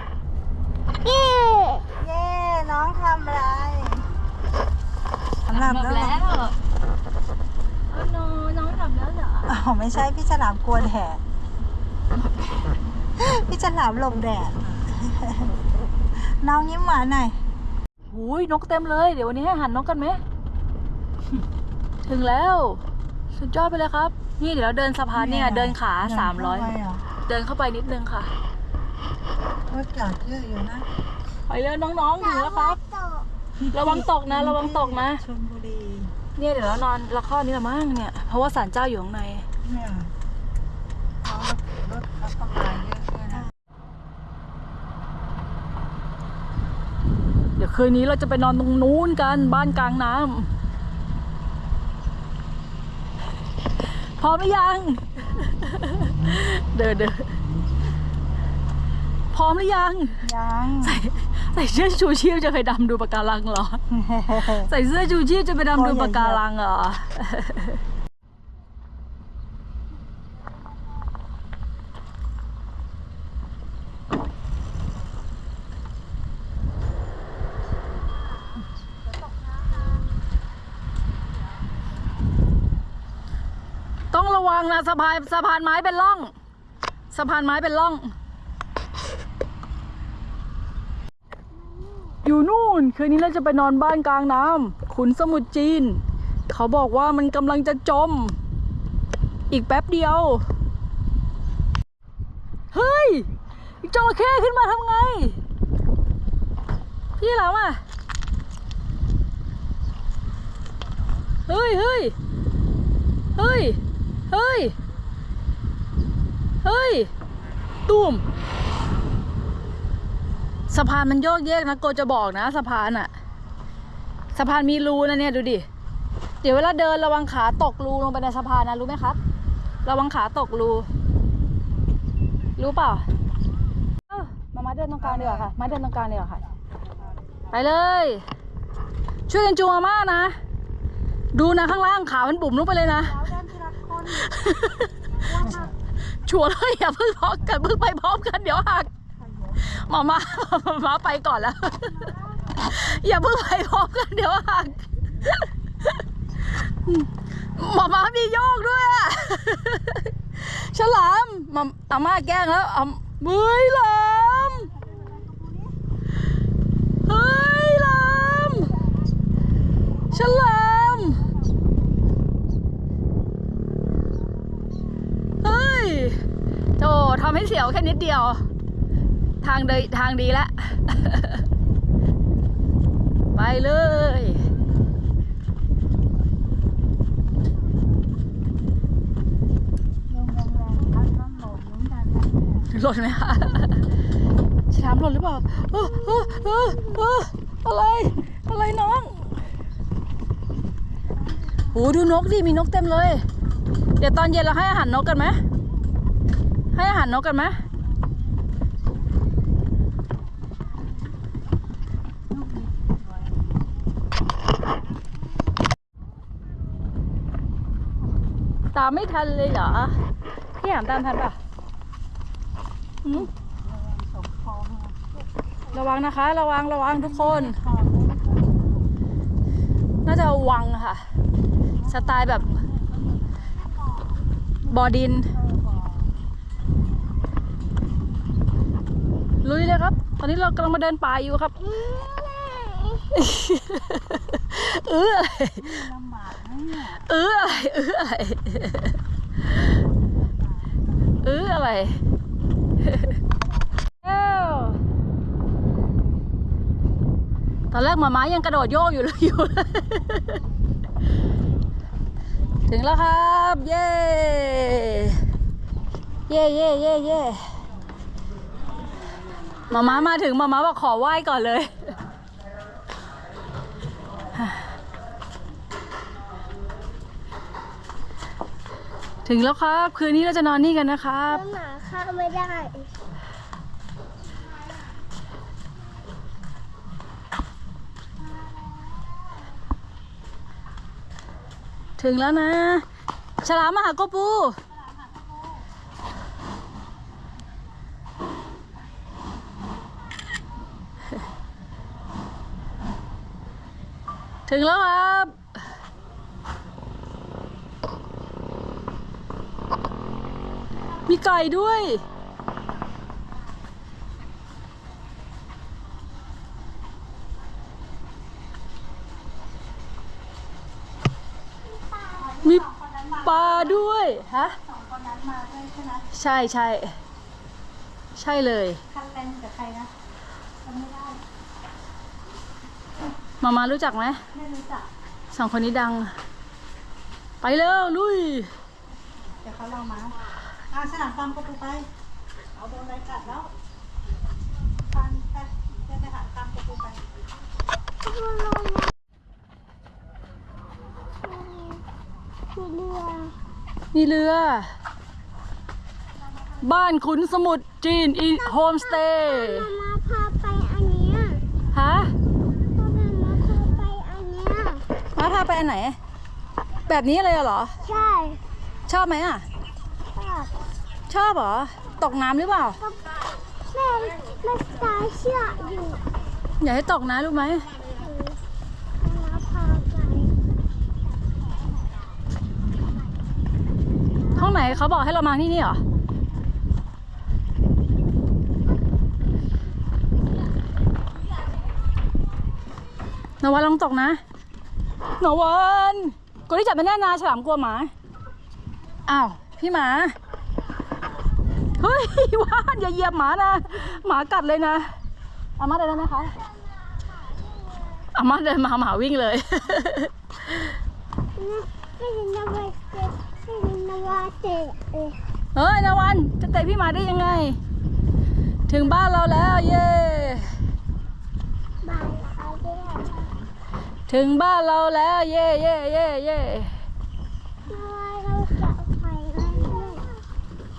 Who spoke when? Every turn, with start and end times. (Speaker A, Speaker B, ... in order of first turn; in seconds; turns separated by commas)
Speaker A: 1.0-1.9, Speaker B: 2.0-4.1, Speaker B: 5.5-6.2, Speaker C: 5.5-6.5, Speaker C: 7.9-9.6, Speaker B: 9.5-11.2, Speaker B: 13.2-15.5, Speaker B: 16.1-17.4, Speaker C: 18.1-20.2, Speaker C: 22.1-22.8, Speaker C: 23.3-26.7, Speaker B: 25.1-27.0, Speaker C: 27.2-28.3, Speaker B: 29.7-30.9, Speaker C: 31.5-32.8, Speaker A: 32.2-33.3, Speaker B: 33.6-36.1, Speaker C: 33.7-35.2, Speaker C: 36.4-39.5, Speaker B: 39.6-40.1, Speaker B: 41.2-43.5, Speaker C: 47.6-50.5, Speaker C: 54.2-57.4, Speaker C: 59.3-60.2, Speaker B: 60.2-61.1, Speaker C: 60.8-63.8, Speaker B: 63.9-64.7, Speaker C: 64.4-67.8, Speaker B: 65.7-66.4, Speaker C: 84.1-86.3, Speaker C: 87.1-88.1, Speaker A: 91.7-92.2, Speaker C: 92.2-98.4, Speaker C: 99.5-100.5, Speaker C: 102.7-103.3, Speaker C: 103.8-105.4, Speaker C: 107.2-107.8, Speaker C: 111.5-112.2, Speaker C: 113.3-114.8, Speaker C: 116.6-117.1, Speaker C: 117.9-118.2, Speaker C: 120.7-123.1, Speaker C: 124.3-125.7, Speaker C: 126.4-129.2, Speaker C: 129.8-130.9, Speaker C: 132.6-133.1, Speaker C: 134.1-136.4, Speaker B: 135.0-135.5, Speaker C: 137.5-138.2, Speaker C: 139.3-140.4, Speaker C: 141.3-143.2, Speaker B: 143.0-144.3, Speaker C: 144.2-144.9, Speaker B: 145.2-145.7, Speaker C: 146.2-148.9, Speaker B: 149.2-149.9, Speaker C: 149.7-156.0, Speaker C: 156.6-164.7, Speaker B: 164.6-165.8, Speaker C: 167.1-168.7, Speaker C: 170.1-171.3, Speaker C: 175.4-176.2, Speaker C: 176.8-178.4, Speaker C: 179.4-181.4, Speaker C: 183.3-184.4, Speaker B: 190.1-192.7, Speaker C: 192.7-193.8, Speaker C: 194.7-199.3, Speaker A: 195.8-197.0, Speaker C: 201.7-203.2, Speaker C: 204.0-205.4, Speaker C: 206.7-207.6, Speaker B: 212.3-213.4, Speaker C: 218.7-220.0, Speaker C: 220.6-221.4, Speaker C: 223.1-223.3, Speaker B: 223.1-225.0, Speaker C: 225.7-227.6, Speaker B: 227.0-228.9, Speaker C: 230.1-231.0, Speaker B: 231.8-234.1, Speaker C: 231.9-232.6, Speaker C: 234.7-235.3, Speaker B: 235.3-236.1, Speaker C: 239.4-241.5, Speaker A: 241.6-243.1, Speaker C: 243.1-245.8, Speaker B: 245.6-247.1, Speaker C: 247.0-249.0, Speaker B: 250.1-250.8, Speaker C: 251.2-252.0, Speaker C: 254.0-254.8, Speaker C: 257.7-260.4, Speaker C: 262.7-265.2, Speaker C: 266.3-267.5, Speaker C: 269.7-271.9, Speaker C: 279.2-281.4, Speaker A: 281.3-282.9, Speaker C: 292.0-292.9, Speaker C: 293.4-294.6, Speaker C: 304.5-305.4, Speaker C: 311.1-312.0, Speaker A: 321.9-322.2, Speaker B: 322.1-323.9, Speaker C: 323.2-324.6, Speaker B: 324.6-326.1, Speaker C: 326.1-327.0, Speaker C: 328.2-328.8, Speaker B: 328.9-329.9, Speaker B: 330.6-331.2, Speaker C: 333.4-334.2, Speaker B: 334.3-334.9, Speaker C: 335.3-336.1, Speaker C: 337.4-338.5, Speaker B: 339.3-340.2, Speaker B: 340.7-341.9, Speaker B: 342.6-343.5, Speaker B: 344.9-347.0, Speaker A: 348.1-348.9, Speaker A: 351.2-351.8, Speaker A: 352.5-353.4, Speaker C: 353.9-354.7, Speaker C: 356.6-359.7, Speaker A: 358.4-361.4, Speaker C: 361.7-362.1, Speaker A: 362.8-364.9, Speaker C: 365.1-366.0, Speaker C: 366.9-367.8, Speaker A: 367.8-368.4, Speaker C: 368.9-369.4, Speaker A: 370.1-370.5, Speaker C: 371.1-372.8, Speaker A: 372.8-376.1, Speaker C: 376.6-377.7, Speaker A: 377.9-378.4, Speaker A: 379.0-380.4, Speaker C: 384.3-385.8, Speaker C: 393.4-394.2, Speaker C: 395.2-397.9, Speaker C: 399.1-400.1, Speaker C: 401.8-404.9, Speaker C: 405.6-406.4, Speaker A: 407.1-408.0, Speaker C: 408.1-410.1, Speaker A: 411.4-415.2, Speaker C: 415.6-417.6, Speaker C: 418.7-420.5, Speaker A: 421.8-423.3, Speaker C: 424.1-426.7, Speaker A: 427.7-430.2